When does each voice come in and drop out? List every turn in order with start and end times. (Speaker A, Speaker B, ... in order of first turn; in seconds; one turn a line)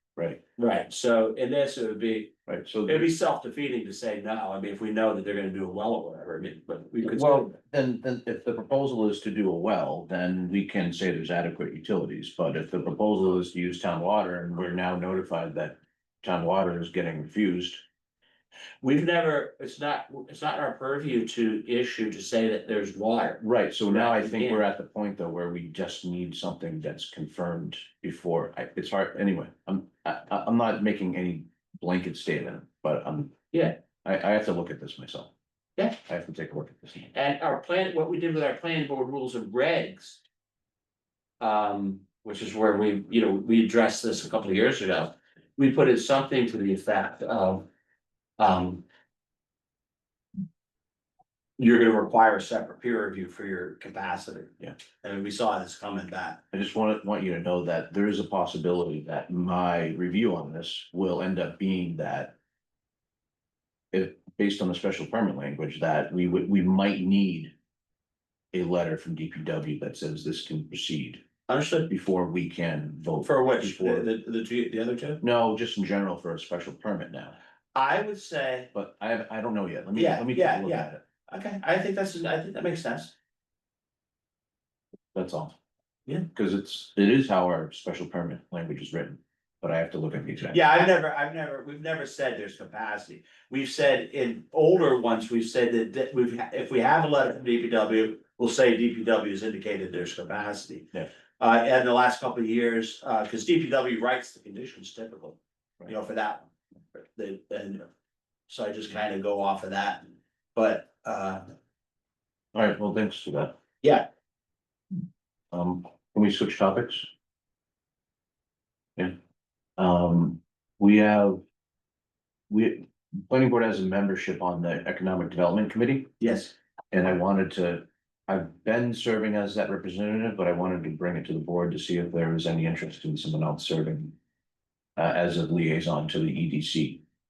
Speaker A: 0.6-2.3
Speaker B: 2.5-3.1
Speaker A: 2.9-7.5
Speaker B: 7.0-17.8
Speaker A: 18.8-24.6
Speaker B: 23.4-35.3
Speaker A: 33.5-33.8
Speaker B: 36.0-37.1
Speaker A: 37.1-40.2
Speaker A: 41.4-47.7
Speaker A: 48.4-48.8
Speaker A: 51.6-56.4
Speaker B: 56.5-62.4
Speaker B: 63.9-67.5
Speaker B: 68.5-71.2
Speaker A: 71.5-71.9
Speaker B: 71.9-74.1
Speaker A: 73.2-75.2
Speaker B: 75.2-77.4
Speaker A: 77.8-78.7
Speaker B: 78.7-81.0
Speaker A: 79.9-83.1
Speaker B: 85.1-85.5
Speaker B: 86.3-90.6
Speaker A: 90.5-107.9
Speaker A: 108.5-111.5
Speaker B: 112.5-113.5
Speaker B: 115.5-117.1
Speaker B: 119.8-121.4
Speaker B: 122.5-126.1
Speaker A: 126.2-126.5
Speaker B: 126.9-134.2
Speaker B: 135.0-137.0